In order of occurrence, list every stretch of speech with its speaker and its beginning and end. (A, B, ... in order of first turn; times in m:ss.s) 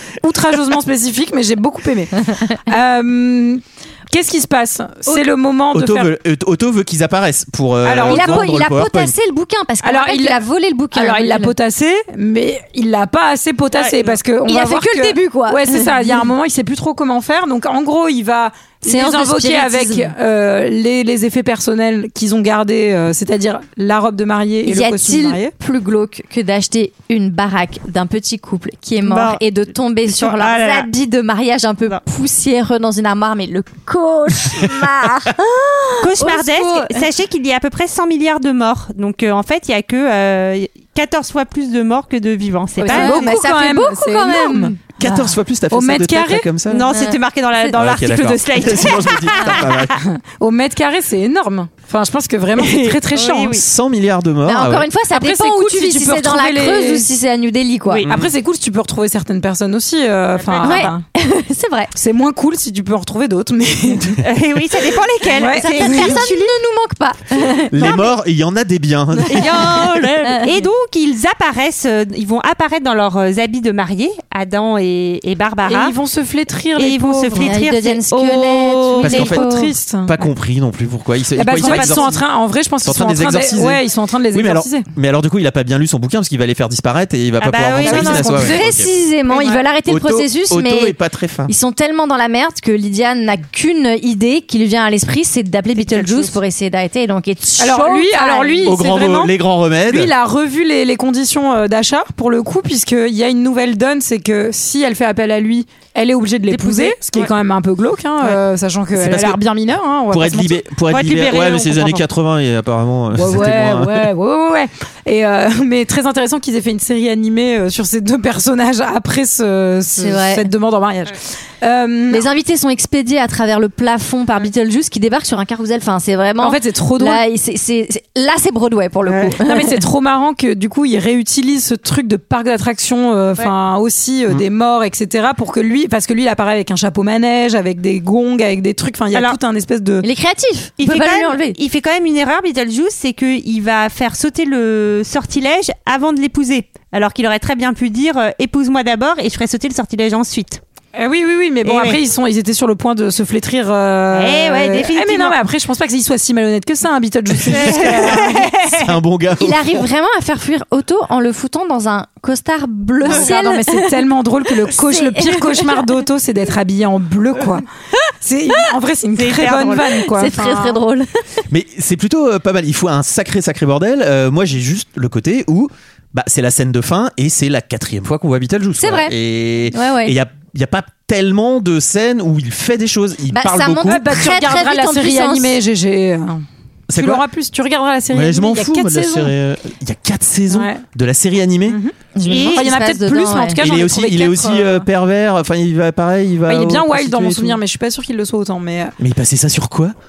0:00.2-0:06.1 A
0:05.7-0:09.1 B
0:07.8-0:08.5 A
0:08.0-0:11.5 C
0:09.8-0:10.4 A
0:10.9-0:25.5 A
0:13.7-0:14.2 D
0:14.4-0:16.3 C
0:18.8-0:20.1 C
0:24.6-0:37.0 C
0:29.0-0:29.4 D
0:30.1-0:30.9 D
0:36.0-0:43.3 D
0:42.8-0:44.8 C
0:42.8-0:44.8 A
0:45.0-0:46.9 B
0:45.7-0:46.5 A
0:46.7-0:49.8 D
0:46.9-0:47.8 C
0:47.6-0:50.0 B
0:49.4-0:49.6 C
0:50.0-0:53.6 A
0:52.6-0:53.6 D
0:53.5-0:54.9 B
0:54.4-0:58.0 C
0:55.1-0:57.1 A
0:58.1-1:01.0 A
1:00.4-1:00.9 D
1:00.6-1:01.9 C
1:01.9-1:04.2 A
1:04.2-1:06.5 D
1:05.3-1:06.2 A
1:05.6-1:07.9 C
1:07.7-1:09.9 B
1:07.8-1:08.1 D
1:09.3-1:16.0 D
1:09.6-1:10.6 C
1:15.6-1:17.6 A
1:16.8-1:18.9 D
1:17.4-1:19.7 C
1:18.8-1:20.1 A
1:19.0-1:19.5 B
1:20.0-1:22.2 B
1:21.4-1:24.9 A
1:21.5-1:22.1 D
1:22.8-1:28.9 B
1:27.4-1:28.2 D
1:27.8-1:28.6 A
1:28.0-1:30.9 C
1:29.3-1:29.6 A
1:29.8-1:31.5 B
1:31.5-1:38.8 C
1:35.8-1:36.3 D
1:37.6-1:39.3 A
1:38.6-1:40.1 B
1:39.9-1:50.6 A
1:46.5-1:47.3 D
1:48.9-1:49.4 B
1:50.1-1:54.1 B
1:50.9-1:52.0 D
1:53.1-2:02.2 A
1:59.9-2:00.5 C
2:02.1-2:09.8 C
2:06.4-2:07.2 A
2:09.0-2:09.3 D
2:09.4-2:20.0 A
2:20.0-2:21.6 C
2:20.8-2:30.6 D
2:31.0-2:38.5 A
2:31.6-2:32.0 D
2:34.1-2:35.4 D
2:37.4-2:39.9 B
2:37.5-2:38.9 D
2:39.4-2:44.0 C
2:43.0-2:47.6 A
2:44.7-2:45.8 C
2:48.2-2:50.8 A
2:49.2-2:49.9 D
2:50.0-2:51.1 C
2:51.5-3:04.2 B
2:58.8-2:59.1 C
2:59.7-3:00.1 C
3:03.3-3:05.6 C
3:03.8-3:06.4 A
3:06.9-3:07.2 B
3:06.9-3:09.3 A
3:08.1-3:11.8 B
3:10.5-3:10.8 A
3:11.7-3:11.9 A
3:12.1-3:13.6 C
3:12.2-3:12.6 D
3:12.5-3:14.8 A
3:13.6-3:17.6 B
3:16.5-3:18.9 A
3:19.0-3:19.9 B